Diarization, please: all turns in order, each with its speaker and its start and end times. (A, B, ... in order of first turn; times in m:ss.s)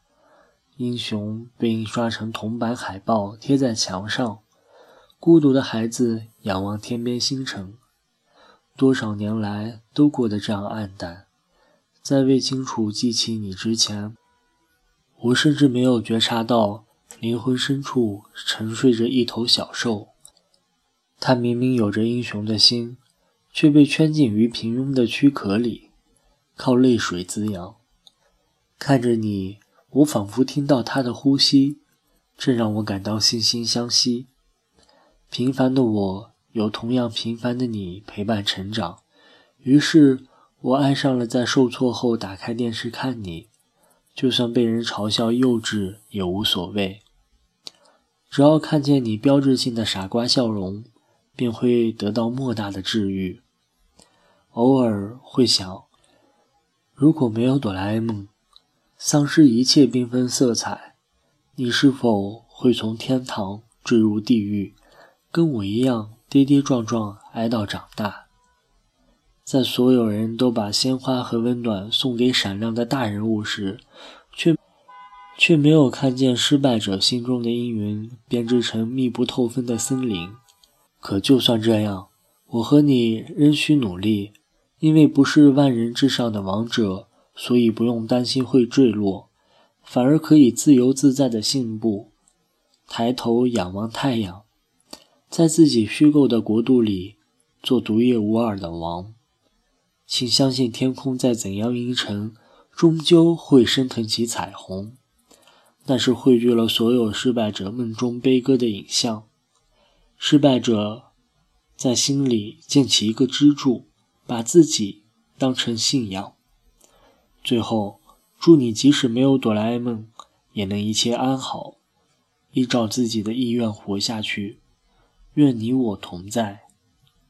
0:00.8-0:04.4 A
0:05.2-0:07.8 A
0:08.8-0:11.3 A
0:12.0-0:14.2 A
0:15.2-0:20.1 A
0:21.2-0:23.0 A
0:23.5-0:25.9 A
0:26.6-0:27.8 A
0:28.8-0:31.8 A
0:32.4-0:34.3 A
0:35.3-0:39.0 A
0:39.6-0:43.5 A
0:44.2-0:47.0 A
0:48.3-0:53.4 A
0:54.5-0:55.9 A
0:57.0-0:58.3 A
0:59.0-1:00.9 A
1:01.6-1:04.8 A
1:05.3-1:08.3 A
1:09.4-1:14.6 A
1:15.4-1:20.4 A
1:21.0-1:29.3 A
1:29.8-1:32.1 A
1:32.9-1:34.4 A
1:35.3-1:39.2 A
1:40.1-1:45.0 A
1:45.8-1:49.3 A
1:50.2-1:51.1 A
1:51.8-1:56.4 A
1:57.4-2:01.8 A
2:02.5-2:04.6 A
2:05.3-2:06.7 A